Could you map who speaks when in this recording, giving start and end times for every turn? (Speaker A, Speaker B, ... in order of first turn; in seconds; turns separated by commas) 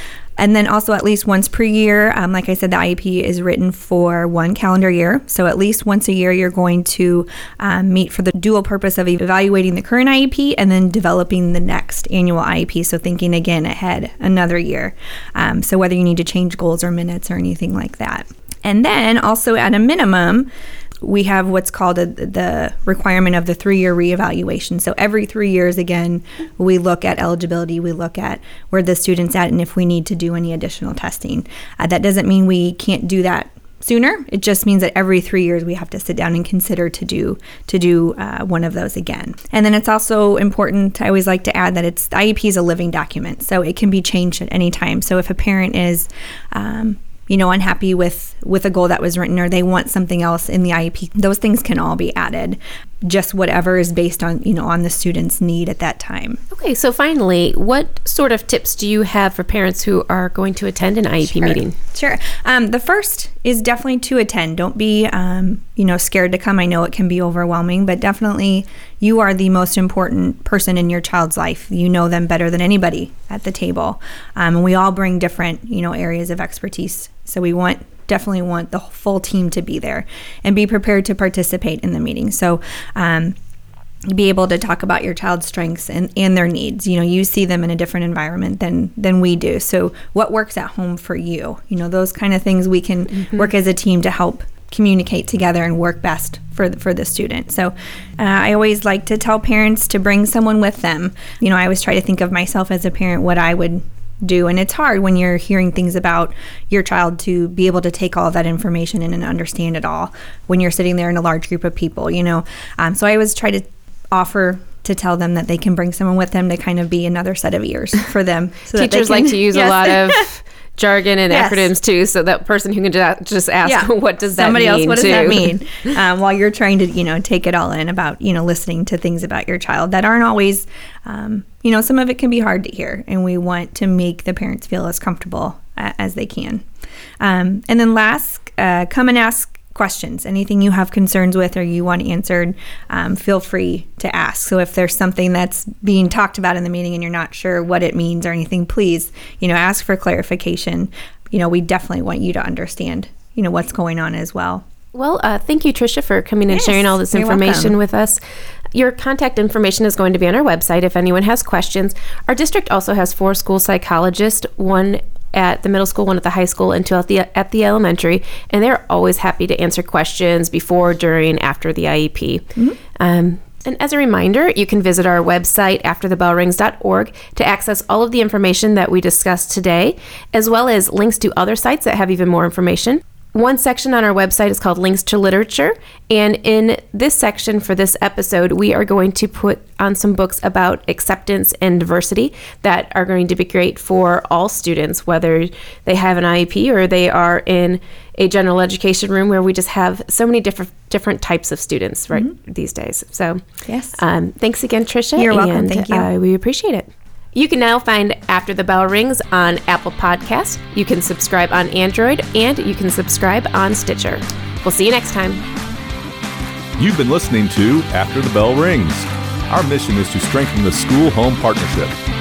Speaker A: 0.4-20.5, Speaker A: 21.0-56.4, Speaker B: 56.5-61.7, Speaker A: 61.2-83.3, Speaker A: 84.1-120.2, Speaker B: 118.7-125.5, Speaker A: 121.3-121.7, Speaker A: 123.6-136.6, Speaker A: 137.2-154.6, Speaker B: 154.9-158.2, Speaker A: 156.5-157.8, Speaker B: 158.7-203.4, Speaker A: 203.7-204.0, Speaker B: 203.9-215.4, Speaker A: 205.2-206.1, Speaker C: 216.8-221.9